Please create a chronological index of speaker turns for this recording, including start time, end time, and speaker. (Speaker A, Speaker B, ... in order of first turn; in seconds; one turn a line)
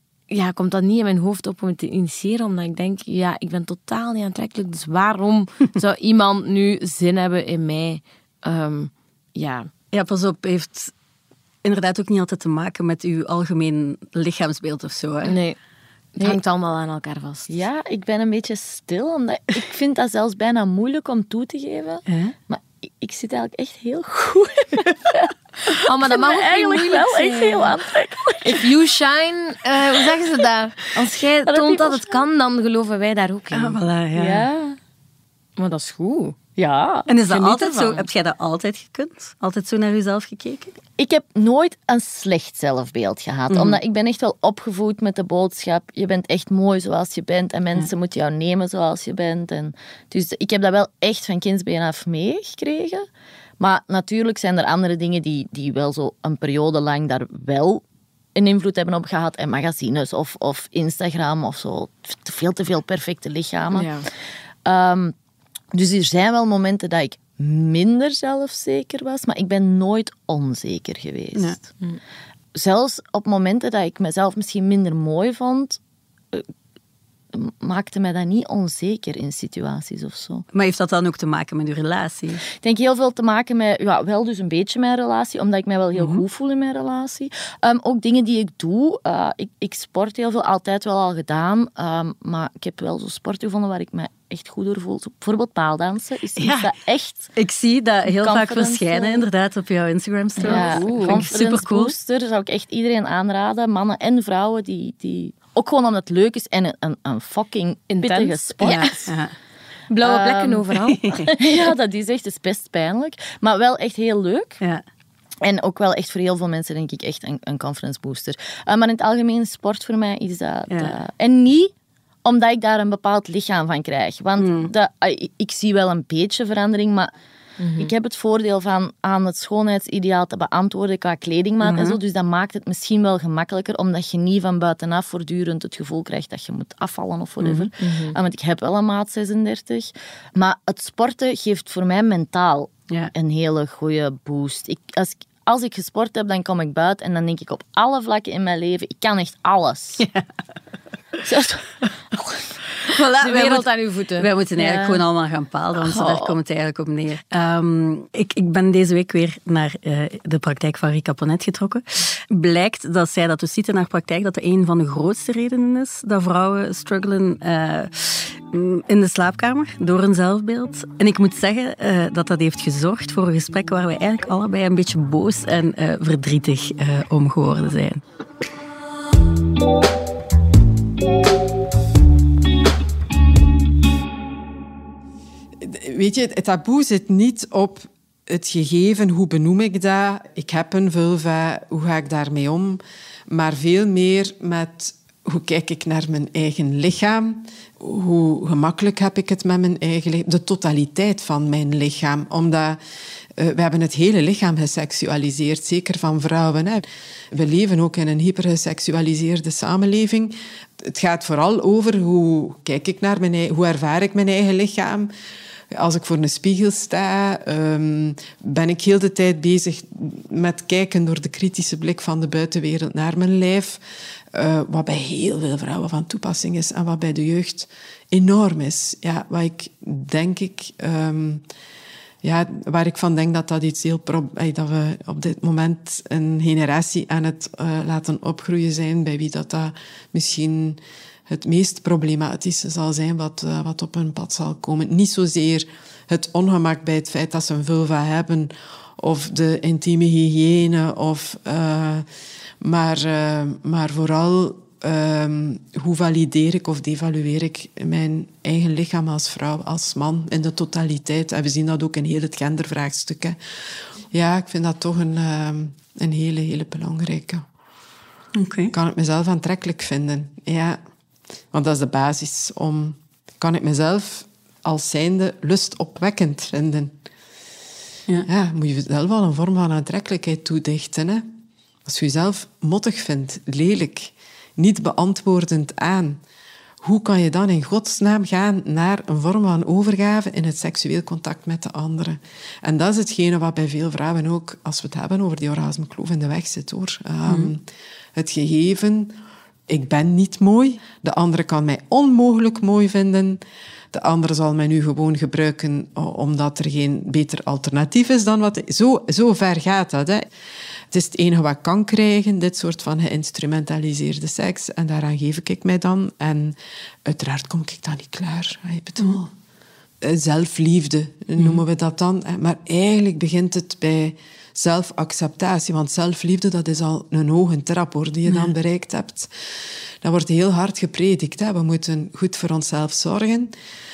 Speaker A: 0.3-9.7
Speaker B: 9.9-10.9
Speaker B: 11.6-15.4
Speaker A: 15.2-15.6
Speaker A: 16.2-17.5
Speaker C: 17.5-28.6
Speaker B: 22.1-22.3
Speaker A: 25.8-27.8
Speaker A: 28.4-33.8
Speaker C: 30.9-32.2
Speaker B: 33.5-34.5
Speaker C: 34.1-34.8
Speaker A: 35.6-36.4
Speaker C: 36.6-37.1
Speaker B: 37.1-40.8
Speaker A: 37.3-38.1
Speaker C: 41.0-53.1
Speaker B: 43.5-43.8
Speaker C: 53.6-57.8
Speaker C: 58.4-64.0
Speaker A: 63.7-64.1
Speaker C: 64.7-65.1
Speaker C: 65.7-71.7
Speaker C: 72.5-75.8
Speaker C: 77.3-80.5
Speaker B: 80.5-82.4
Speaker C: 82.6-97.3
Speaker B: 86.0-86.2
Speaker B: 96.4-96.7
Speaker B: 97.4-101.9
Speaker C: 98.1-99.3
Speaker A: 100.4-101.3
Speaker C: 100.4-109.1
Speaker A: 107.9-109.0
Speaker B: 108.6-109.3
Speaker A: 109.9-111.5
Speaker C: 110.0-110.7
Speaker B: 111.0-111.3
Speaker C: 111.4-114.6
Speaker C: 115.4-121.7
Speaker C: 122.2-127.1
Speaker B: 124.4-124.7
Speaker A: 127.6-127.9
Speaker C: 127.8-150.1
Speaker B: 131.6-132.0
Speaker B: 137.4-137.7
Speaker A: 137.8-138.2
Speaker C: 151.2-152.5
Speaker A: 152.8-154.3
Speaker B: 153.2-153.7
Speaker B: 154.2-178.0
Speaker C: 154.6-155.0
Speaker A: 155.8-156.3
Speaker D: 185.6-202.8
Speaker D: 203.4-215.1
Speaker D: 215.7-223.8
Speaker D: 224.3-231.4
Speaker D: 232.2-252.1
Speaker D: 252.6-263.4
Speaker D: 264.1-267.4
Speaker B: 268.4-268.7
Speaker D: 268.7-270.8
Speaker D: 271.5-276.9
Speaker D: 278.3-281.3
Speaker D: 281.9-286.2
Speaker D: 286.8-297.6
Speaker B: 297.3-297.5
Speaker D: 298.1-299.2
Speaker D: 299.7-310.3
Speaker D: 310.9-319.3
Speaker D: 320.0-329.3
Speaker B: 321.4-321.6
Speaker B: 328.3-328.5
Speaker D: 330.0-333.5